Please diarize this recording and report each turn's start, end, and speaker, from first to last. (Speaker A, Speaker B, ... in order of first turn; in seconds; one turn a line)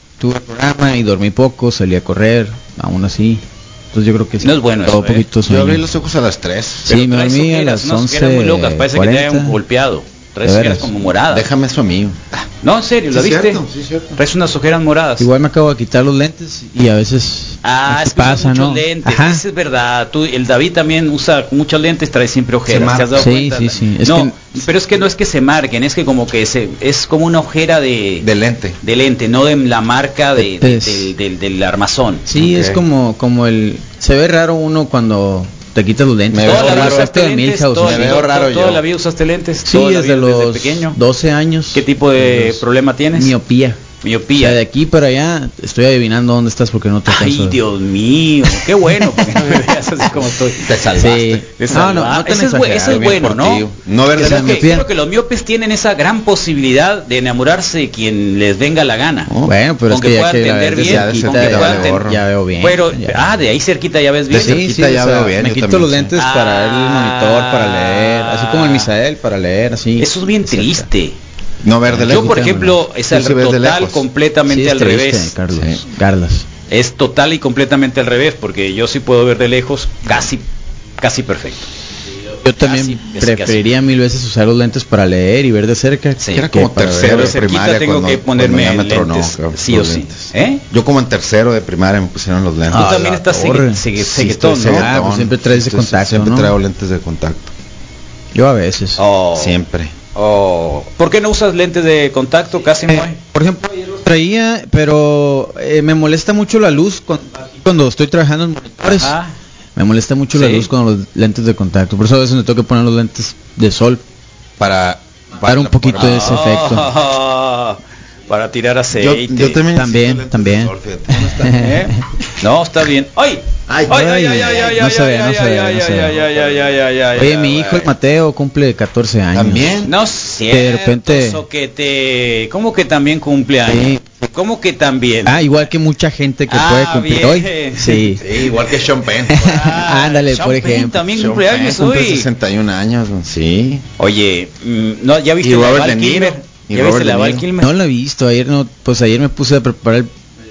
Speaker A: 0.2-5.8
Speaker B: 4.4-5.3
Speaker C: 5.4-6.9
Speaker A: 6.9-9.6
Speaker B: 6.9-11.5
Speaker A: 10.4-10.9
Speaker C: 11.3-12.2
Speaker B: 12.6-13.6
Speaker C: 13.1-14.2
Speaker B: 14.2-15.3
Speaker A: 15.2-19.4
Speaker B: 17.6-28.3
Speaker C: 22.7-23.3
Speaker A: 23.1-24.5
Speaker C: 28.2-28.8
Speaker B: 28.8-32.2
Speaker A: 30.4-31.1
Speaker A: 32.3-38.2
Speaker C: 32.3-32.8
Speaker C: 36.3-37.1
Speaker B: 36.4-41.0
Speaker C: 37.8-38.8
Speaker A: 39.6-42.6
Speaker B: 41.7-43.3
Speaker A: 43.1-43.8
Speaker B: 44.0-44.6
Speaker A: 44.4-47.6
Speaker B: 47.1-59.3
Speaker C: 50.6-51.4
Speaker A: 51.0-53.2
Speaker C: 52.8-54.8
Speaker A: 54.1-54.9
Speaker A: 59.3-63.3
Speaker B: 59.9-62.1
Speaker C: 60.7-62.2
Speaker B: 62.6-64.7
Speaker C: 64.3-66.1
Speaker A: 64.3-70.9
Speaker B: 66.1-68.9
Speaker B: 70.0-71.1
Speaker C: 71.6-74.0
Speaker A: 71.9-72.7
Speaker B: 72.0-75.3
Speaker A: 74.5-76.5
Speaker B: 76.7-80.4
Speaker B: 81.0-81.7
Speaker A: 82.4-87.2
Speaker B: 82.6-83.6
Speaker B: 86.2-90.6
Speaker C: 86.3-93.2
Speaker A: 92.7-93.8
Speaker B: 92.7-94.9
Speaker C: 94.1-97.5
Speaker A: 94.4-96.5
Speaker A: 98.3-99.0
Speaker B: 99.0-103.2
Speaker C: 99.3-99.9
Speaker A: 102.9-109.2
Speaker B: 108.8-109.3
Speaker A: 109.8-114.0
Speaker B: 110.3-110.7
Speaker C: 114.6-116.6
Speaker A: 115.4-116.9
Speaker B: 116.0-119.6
Speaker C: 119.0-121.7
Speaker A: 119.7-122.0
Speaker B: 121.5-127.9
Speaker C: 123.7-124.0
Speaker A: 123.9-126.2
Speaker A: 127.2-129.7
Speaker C: 129.3-129.9
Speaker B: 129.8-135.4
Speaker A: 130.5-131.4
Speaker A: 133.7-134.1
Speaker A: 135.2-138.2
Speaker B: 136.5-138.2
Speaker C: 138.2-139.6
Speaker A: 139.3-141.0
Speaker B: 139.3-142.3
Speaker C: 141.1-143.8
Speaker B: 144.0-147.7
Speaker C: 145.4-147.4
Speaker A: 147.6-150.1